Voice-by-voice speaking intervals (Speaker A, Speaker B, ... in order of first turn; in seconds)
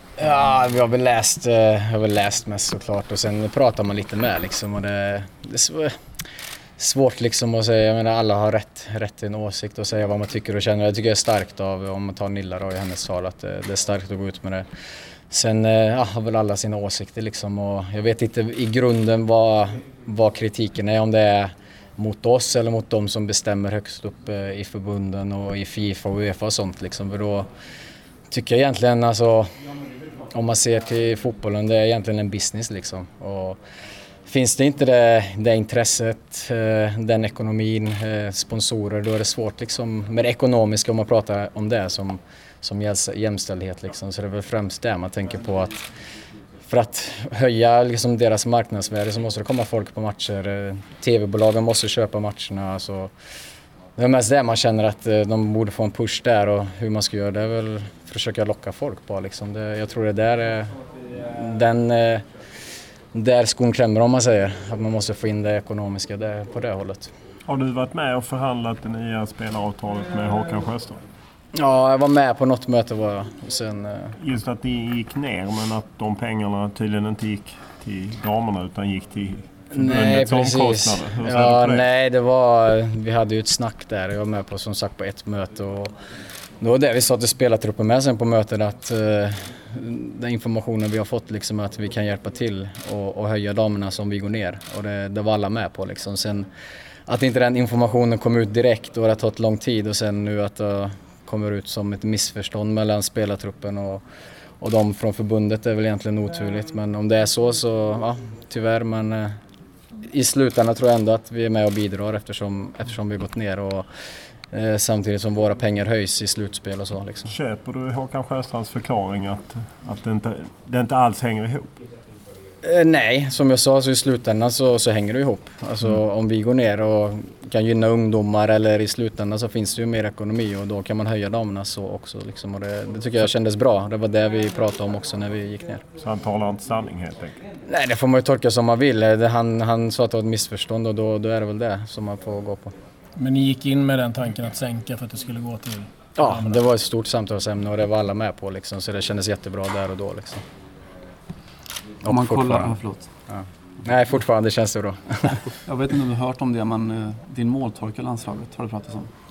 Speaker A: 0.2-5.9, 6.8-14.7, 15.3-27.5, 28.3-29.5, 30.3-33.6, 34.2-45.8, 46.6-53.1, 54.0-62.2, 63.1-67.1, 71.5-74.2, 79.7-85.9, 86.6-96.5, 97.1-104.0, 104.6-109.4, 110.0-113.9, 114.5-117.3, 122.6-135.8, 137.7-142.7, 146.1-150.4, 152.0-155.5
Speaker B: 67.5-71.0, 74.2-81.9, 117.3-121.7, 136.0-137.4
Speaker C: 143.2-146.6
Speaker D: 152.1-153.1, 155.7-159.1